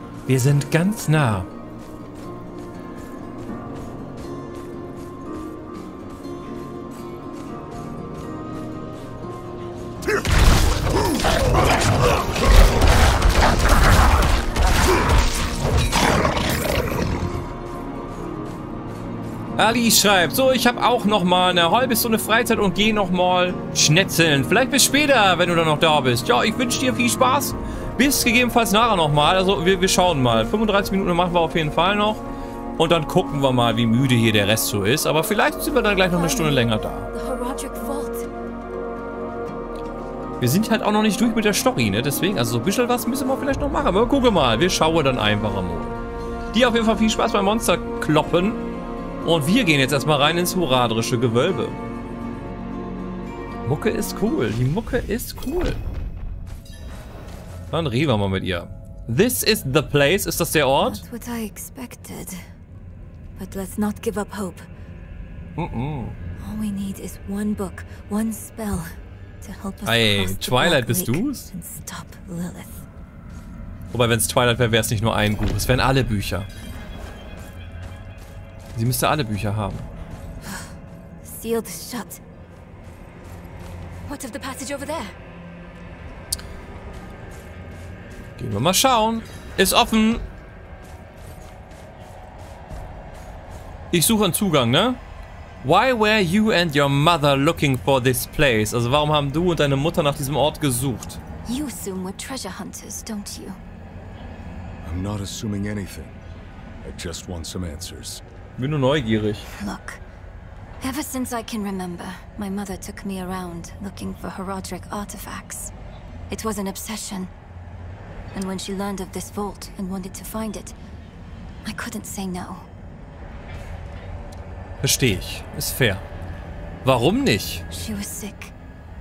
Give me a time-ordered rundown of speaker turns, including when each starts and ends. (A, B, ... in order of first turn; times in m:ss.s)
0:00.3-0:01.5 A
0:19.6-0:32.2 A
0:32.8-0:37.1 A
0:36.1-0:38.3 B
0:40.4-0:46.0 A
0:46.5-0:48.6 A
0:49.2-0:51.8 A
0:53.7-0:55.8 A
0:57.7-1:01.0 A
1:00.8-1:02.4 B
1:03.4-1:04.7 B
1:05.6-1:06.2 A
1:06.4-1:08.9 B
1:09.4-1:12.8 B
1:09.8-1:11.5 A
1:13.9-1:16.5 A
1:18.8-1:19.9 A
1:20.4-1:20.7 B
1:21.2-1:22.2 B
1:24.1-1:25.2 B
1:28.4-1:30.2 A
1:33.9-1:35.0 A
1:35.6-1:41.2 A
1:41.5-1:43.6 B
1:44.8-1:46.2 C
1:46.8-1:48.2 C
1:48.6-1:49.5 A
1:49.6-1:50.0 B
1:50.8-1:55.7 B
1:56.3-1:57.3 B
1:58.3-2:00.8 B
2:01.6-2:02.7 B
2:04.8-2:06.0 A
2:06.8-2:07.6 A
2:07.7-2:08.5 B